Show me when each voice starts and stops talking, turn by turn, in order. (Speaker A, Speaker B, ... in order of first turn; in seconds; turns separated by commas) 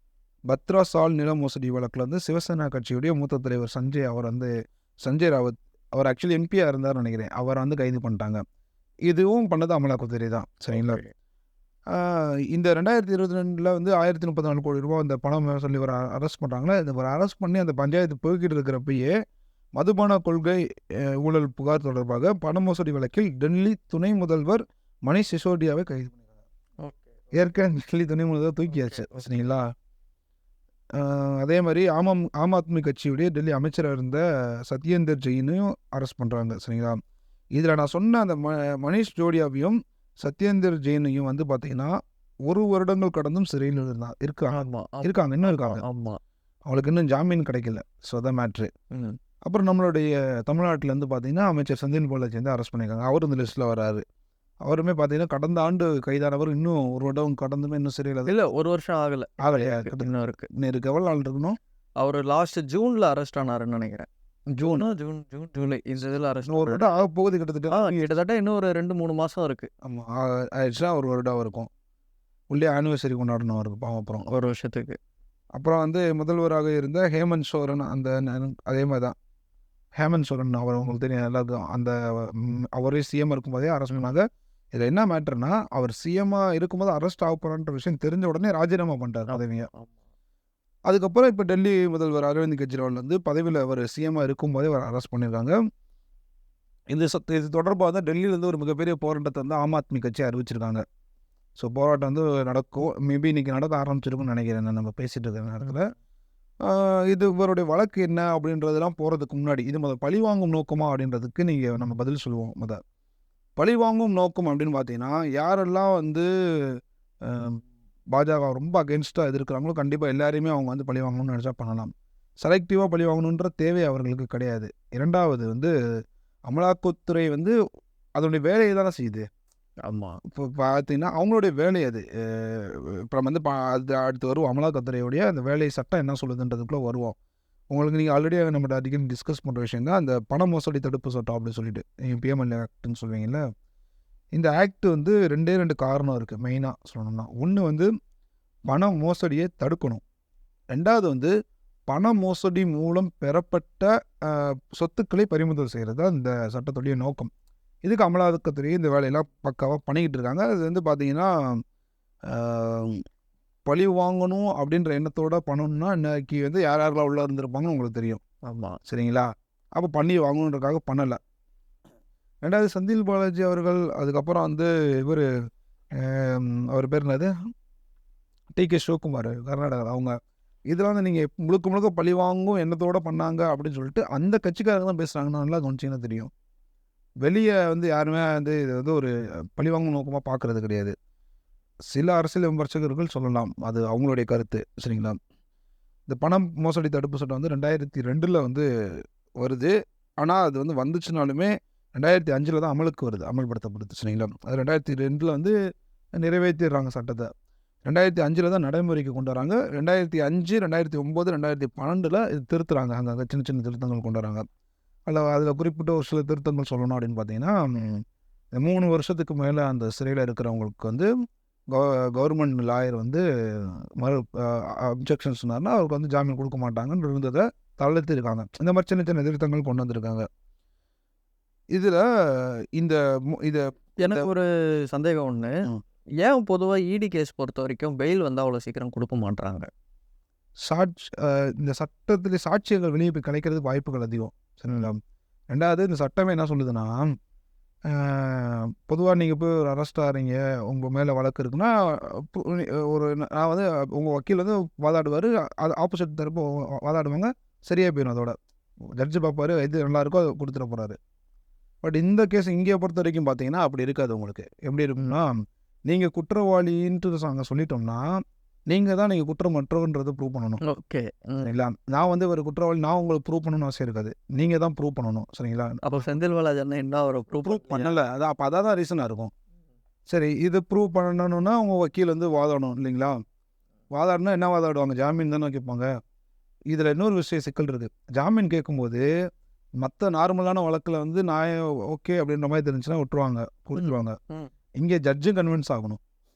Speaker A: 0.5-4.5, Speaker A: 5.0-8.4, Speaker A: 9.1-11.0, Speaker B: 10.7-11.1, Speaker A: 11.9-19.1, Speaker A: 19.8-26.2, Speaker A: 27.3-29.6, Speaker B: 28.7-29.1, Speaker A: 31.0-37.0, Speaker A: 37.6-41.9, Speaker A: 42.5-45.8, Speaker B: 44.5-46.2, Speaker A: 46.7-48.7, Speaker B: 48.9-49.2, Speaker A: 49.4-54.0, Speaker A: 54.6-58.3, Speaker B: 58.2-60.5, Speaker A: 59.4-61.6, Speaker B: 62.0-66.8, Speaker A: 64.6-64.9, Speaker A: 66.5-68.2, Speaker B: 67.7-69.7, Speaker A: 69.8-71.7, Speaker A: 72.5-74.3, Speaker B: 74.3-75.0, Speaker A: 75.6-79.2, Speaker A: 80.0-89.7, Speaker B: 89.3-89.9, Speaker A: 90.9-95.6, Speaker A: 96.9-100.8, Speaker A: 101.6-105.9, Speaker A: 106.7-112.8, Speaker A: 113.6-116.8, Speaker A: 117.2-117.6, Speaker A: 118.1-121.9, Speaker A: 122.4-125.7, Speaker A: 126.5-127.5, Speaker A: 128.2-129.2, Speaker B: 129.8-130.2, Speaker A: 130.3-137.1, Speaker A: 137.7-143.4, Speaker A: 144.3-147.9, Speaker A: 148.7-150.0, Speaker A: 150.7-151.3, Speaker A: 151.9-157.3, Speaker A: 157.8-161.6, Speaker A: 162.3-163.0, Speaker A: 163.7-168.2, Speaker B: 168.4-168.8, Speaker A: 168.9-171.2, Speaker A: 172.4-175.2, Speaker A: 176.0-177.3, Speaker A: 178.5-180.1, Speaker A: 180.7-186.3, Speaker A: 187.2-190.9, Speaker A: 191.9-195.2, Speaker A: 196.1-198.7, Speaker A: 199.4-205.6, Speaker A: 206.2-207.3, Speaker A: 207.8-214.4, Speaker A: 215.1-218.0, Speaker A: 218.6-221.1, Speaker A: 221.7-230.2, Speaker A: 231.7-234.3, Speaker B: 234.0-235.5, Speaker B: 236.2-239.7, Speaker A: 240.7-245.0, Speaker A: 245.5-247.0, Speaker A: 247.9-258.3, Speaker A: 259.0-260.9, Speaker A: 261.8-265.3, Speaker A: 265.9-268.1, Speaker A: 268.7-270.6, Speaker B: 270.6-271.5, Speaker A: 271.4-275.8, Speaker B: 275.8-277.9, Speaker A: 277.4-279.3, Speaker A: 280.1-283.2, Speaker A: 283.9-285.9, Speaker A: 286.7-289.1, Speaker A: 289.8-294.2, Speaker B: 293.7-294.5, Speaker A: 294.8-296.0